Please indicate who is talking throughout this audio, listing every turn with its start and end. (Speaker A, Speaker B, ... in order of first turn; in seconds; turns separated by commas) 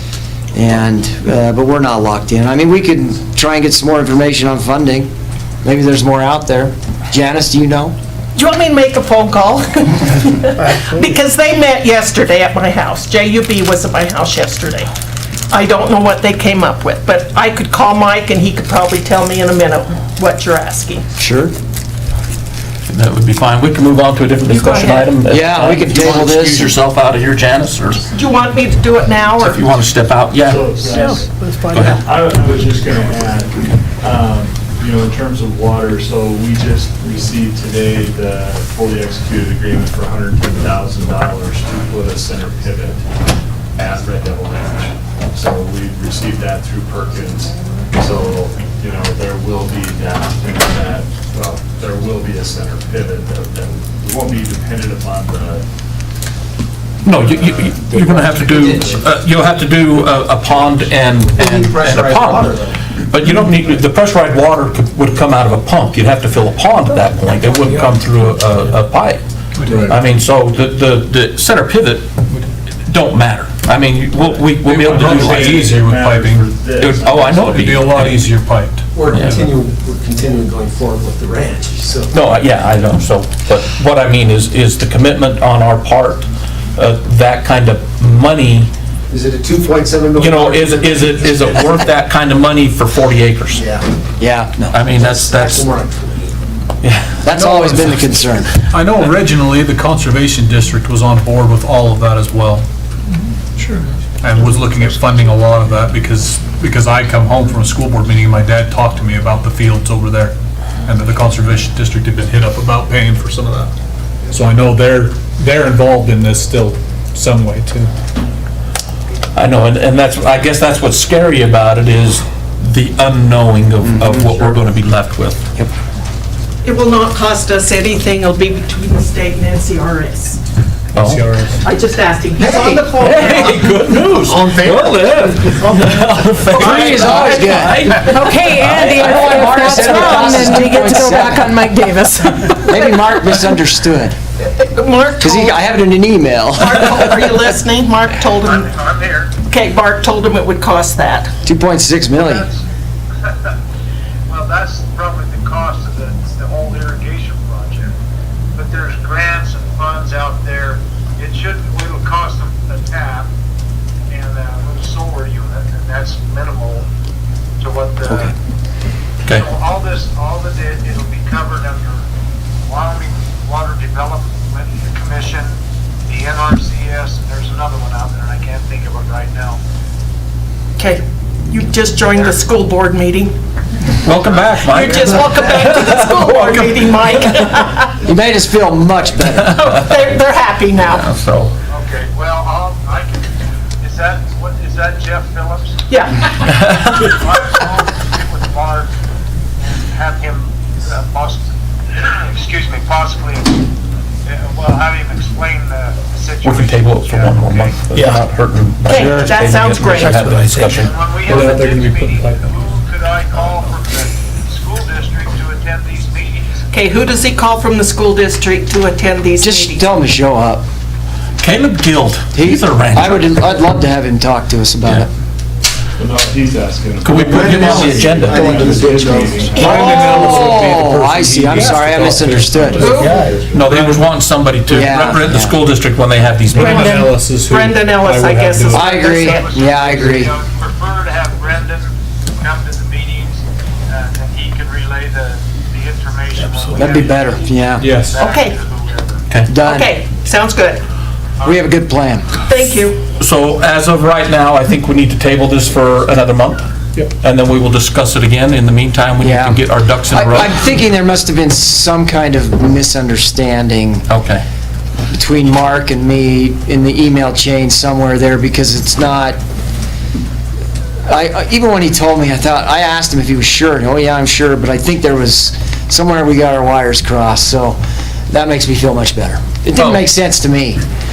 Speaker A: 0.5-5.1, Speaker A: 5.6-8.0, Speaker B: 8.3-14.9, Speaker B: 15.5-21.0, Speaker A: 21.2-21.5, Speaker C: 22.9-28.1, Speaker B: 24.5-25.1, Speaker A: 25.3-26.8, Speaker B: 28.1-29.6, Speaker C: 29.4-30.8, Speaker D: 30.4-43.2, Speaker C: 31.7-32.0, Speaker D: 43.8-55.6, Speaker C: 57.0-69.2, Speaker D: 57.1-59.1, Speaker E: 57.9-59.0, Speaker E: 61.1-62.8, Speaker F: 69.5-70.0, Speaker C: 69.7-72.2, Speaker C: 72.8-75.7, Speaker F: 74.6-76.5, Speaker D: 74.8-78.0, Speaker C: 76.8-78.3, Speaker F: 77.2-79.5, Speaker E: 78.9-82.1, Speaker C: 82.1-88.7, Speaker E: 89.1-91.7, Speaker C: 90.2-93.6, Speaker E: 93.5-93.8, Speaker A: 94.2-94.8, Speaker C: 94.7-95.7, Speaker E: 94.9-96.3, Speaker C: 96.8-97.1, Speaker A: 97.2-98.5, Speaker F: 97.2-102.6, Speaker F: 103.6-110.3, Speaker F: 110.8-113.7, Speaker F: 114.3-117.9, Speaker C: 119.3-125.5, Speaker A: 123.8-124.5, Speaker B: 126.6-130.4, Speaker C: 130.9-131.3, Speaker F: 130.9-131.6, Speaker B: 131.6-133.6, Speaker E: 132.3-137.3, Speaker C: 133.0-139.2, Speaker A: 136.5-141.7, Speaker G: 137.9-142.8, Speaker E: 139.2-140.5, Speaker A: 142.5-144.1, Speaker B: 144.4-145.6, Speaker A: 145.2-146.8, Speaker B: 146.6-148.7, Speaker H: 148.4-149.3, Speaker B: 149.3-151.3, Speaker A: 151.4-152.5, Speaker H: 152.2-152.6, Speaker H: 153.2-153.5, Speaker H: 154.3-157.9, Speaker H: 158.6-163.3, Speaker H: 164.1-166.9, Speaker H: 167.6-168.3, Speaker H: 169.3-172.1, Speaker H: 172.6-179.6, Speaker B: 180.8-183.3, Speaker H: 182.1-182.4, Speaker C: 184.0-187.0, Speaker B: 184.6-188.0, Speaker A: 188.0-189.6, Speaker C: 189.3-190.1, Speaker B: 189.5-191.1, Speaker C: 190.8-191.5, Speaker H: 191.7-195.8, Speaker B: 195.9-196.5, Speaker H: 196.9-198.9, Speaker H: 199.6-203.6, Speaker H: 204.2-208.0, Speaker C: 206.4-210.9, Speaker F: 207.9-208.2, Speaker B: 208.9-210.5, Speaker F: 208.9-209.3, Speaker F: 209.9-212.5, Speaker H: 210.7-216.6, Speaker B: 216.7-219.9, Speaker A: 219.4-220.6, Speaker C: 221.4-223.3, Speaker A: 222.3-225.1, Speaker D: 226.0-230.6, Speaker C: 227.0-228.6, Speaker E: 227.2-229.7, Speaker F: 228.5-234.1, Speaker B: 229.5-230.4, Speaker A: 229.6-232.9, Speaker D: 232.7-233.8, Speaker B: 232.7-233.2, Speaker C: 233.5-236.9, Speaker A: 234.7-235.6, Speaker F: 236.5-239.3, Speaker B: 236.5-239.5, Speaker A: 238.7-240.3, Speaker H: 238.8-249.2, Speaker A: 246.7-248.0, Speaker F: 247.8-248.2, Speaker B: 248.1-248.6, Speaker A: 249.5-249.9, Speaker B: 249.6-250.8, Speaker A: 251.4-252.3, Speaker B: 252.5-253.0, Speaker C: 253.2-256.7, Speaker C: 257.2-260.5, Speaker A: 259.2-264.1, Speaker C: 264.1-264.4, Speaker A: 265.1-269.4, Speaker A: 271.1-277.8, Speaker A: 278.3-280.8, Speaker C: 279.8-280.0